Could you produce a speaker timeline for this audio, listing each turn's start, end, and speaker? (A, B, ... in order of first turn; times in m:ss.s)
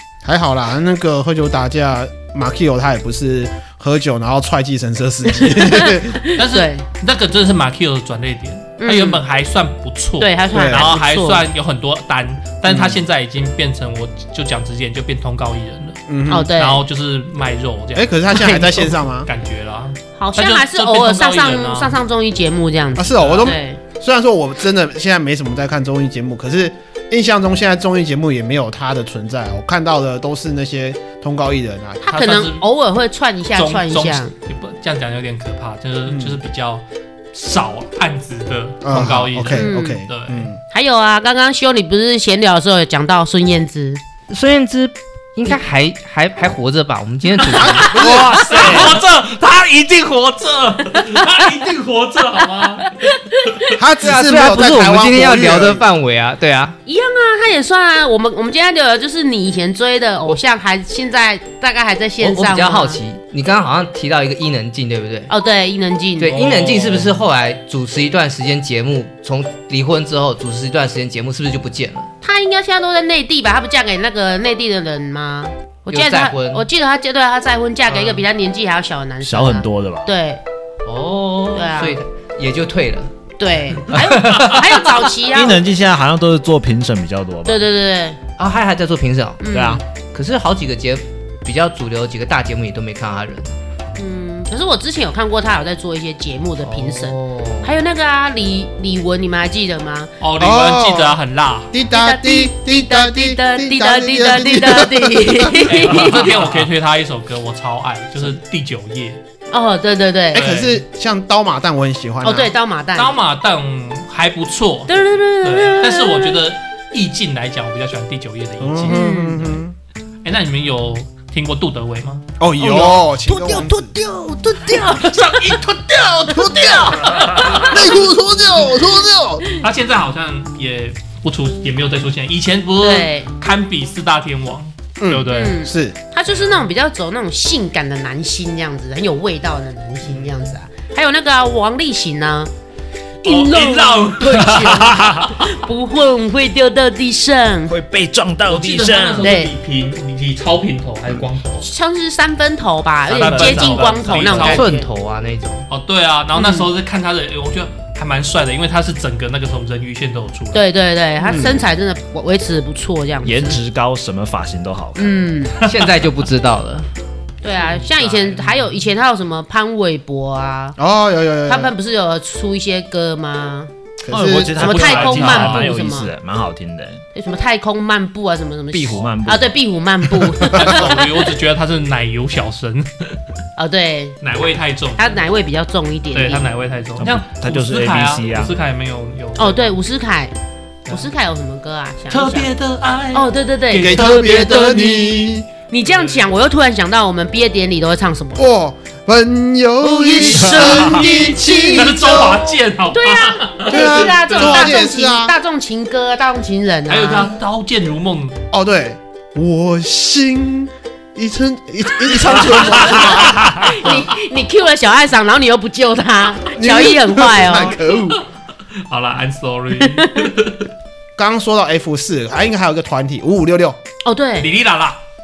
0:00.2-0:06.2 A
0:05.4-0:06.8 B
0:06.4-0:16.0 C
0:08.8-0:09.2 B
0:10.2-0:11.4 B
0:10.5-0:10.9 A
0:12.6-0:13.0 A
0:16.1-0:16.5 A
0:16.3-0:16.8 B
0:16.6-0:18.7 C
0:18.0-0:19.3 A
0:18.3-0:18.8 B
0:19.2-0:22.0 C
0:20.2-0:23.8 B
0:23.0-0:32.1 A
0:23.2-0:23.5 C
0:32.0-0:34.3 B
0:32.1-0:32.6 C
0:33.6-0:40.5 C
0:36.1-0:36.4 A
0:38.8-0:40.6 A
0:39.5-0:40.0 B
0:40.7-0:44.0 B
0:44.3-0:48.0 D
0:47.5-0:48.8 A
0:47.5-0:53.7 C
0:48.0-0:48.9 E
0:51.0-0:51.3 B
0:53.0-0:53.7 B
0:53.7-0:55.8 A
0:54.0-0:56.8 D
0:56.9-1:03.0 B
1:02.2-1:05.3 D
1:05.3-1:06.4 B
1:06.2-1:12.1 D
1:06.3-1:07.2 C
1:12.2-1:20.4 B
1:15.9-1:16.6 D
1:19.2-1:20.1 E
1:20.9-1:23.1 D
1:21.5-1:22.0 B
1:23.4-1:25.6 B
1:24.4-1:24.9 D
1:25.3-1:27.6 E
1:27.5-1:28.2 B
1:28.4-1:33.5 D
1:29.4-1:29.8 B
1:29.5-1:29.8 E
1:34.0-1:40.1 B
1:36.6-1:37.8 D
1:40.2-1:41.7 C
1:40.4-1:41.2 A
1:41.7-1:45.7 A
1:41.9-1:46.3 B
1:45.7-1:49.2 C
1:45.9-1:46.5 E
1:49.5-1:50.5 B
1:50.3-1:50.8 C
1:50.3-1:52.5 A
1:52.2-1:53.2 B
1:53.0-1:59.0 C
1:54.9-1:56.4 B
1:58.6-1:59.7 A
1:58.9-1:59.4 B
2:00.2-2:02.2 C
2:02.4-2:03.9 A
2:02.6-2:05.5 B
2:04.7-2:08.0 C
2:06.2-2:09.4 A
2:06.5-2:07.8 B
2:09.6-2:15.6 C
2:12.8-2:13.3 B
2:15.0-2:16.0 A
2:15.3-2:22.5 B
2:16.3-2:16.7 C
2:23.2-2:24.9 C
2:23.2-2:27.8 B
2:24.5-2:25.3 E
2:27.7-2:29.3 E
2:28.5-2:31.7 C
2:29.2-2:29.5 B
2:31.6-2:34.9 B
2:33.1-2:34.8 C
2:33.2-2:34.1 E
2:34.1-2:35.6 D
2:35.7-2:40.6 C
2:36.4-2:36.7 B
2:40.5-2:43.6 B
2:41.3-2:41.6 A
2:43.2-2:45.3 E
2:45.0-2:45.6 B
2:45.6-2:45.9 C
2:45.6-2:46.9 D
2:47.4-2:50.8 B
2:47.6-2:48.7 C
2:50.8-2:51.7 A
2:51.5-2:53.7 B
2:54.0-2:54.6 A
2:54.1-2:57.0 E
2:54.6-2:56.1 B
2:54.6-2:55.7 C
2:57.1-3:01.2 B
2:58.7-2:59.6 E
3:00.5-3:03.2 C
3:03.6-3:04.2 B
3:04.2-3:05.2 C
3:05.0-3:06.5 B
3:06.1-3:09.8 C
3:07.0-3:08.6 E
3:09.4-3:10.3 B
3:10.9-3:12.5 B
3:12.1-3:15.0 C
3:13.1-3:18.4 B
3:13.8-3:15.5 A
3:15.8-3:16.3 C
3:18.4-3:22.5 A
3:19.8-3:22.4 B
3:21.7-3:24.7 C
3:22.9-3:27.3 B
3:23.7-3:25.4 A
3:26.9-3:28.4 C
3:28.5-3:34.1 A
3:32.5-3:37.8 B
3:36.5-3:38.2 A
3:38.9-3:40.6 C
3:39.8-3:40.3 B
3:41.2-3:43.8 A
3:44.0-3:44.5 B
3:44.4-3:45.0 C